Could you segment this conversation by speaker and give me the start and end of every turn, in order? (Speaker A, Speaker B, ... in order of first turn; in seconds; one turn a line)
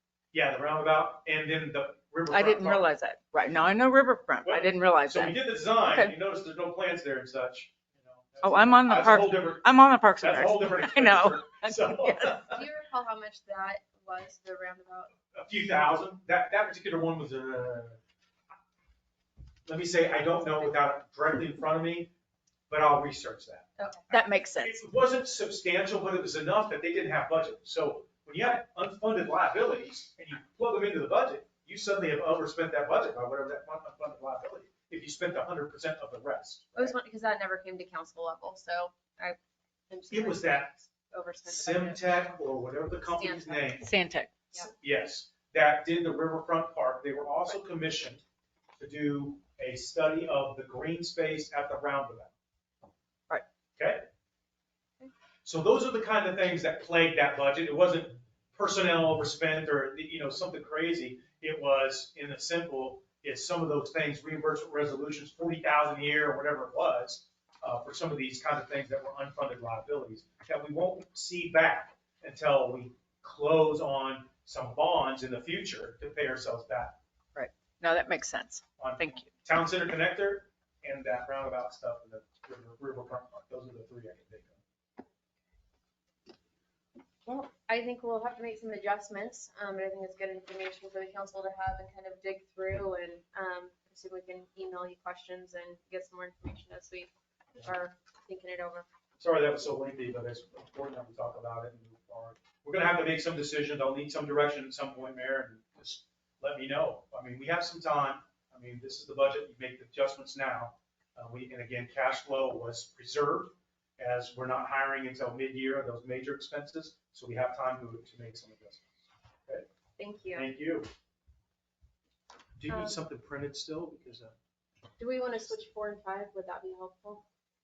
Speaker A: 0.3-2.9
Speaker B: 2.3-6.2
Speaker A: 4.4-12.6
Speaker B: 8.4-12.4
Speaker C: 12.5-15.1
Speaker A: 15.3-18.0
Speaker A: 19.6-22.1
Speaker A: 22.7-36.9
Speaker C: 23.8-24.1
Speaker B: 24.1-24.8
Speaker C: 36.8-39.4
Speaker C: 39.9-42.2
Speaker A: 40.1-40.7
Speaker A: 41.5-43.9
Speaker C: 43.0-43.8
Speaker B: 43.8-44.3
Speaker A: 44.6-48.2
Speaker A: 48.8-52.3
Speaker A: 53.8-54.1
Speaker A: 55.4-77.0
Speaker B: 77.3-79.2
Speaker A: 78.8-84.6
Speaker C: 87.2-98.9
Speaker A: 99.2-118.9
Speaker C: 120.0-120.5
Speaker A: 120.3-120.9
Speaker A: 122.6-124.3
Speaker C: 122.7-123.0
Speaker C: 125.0-127.2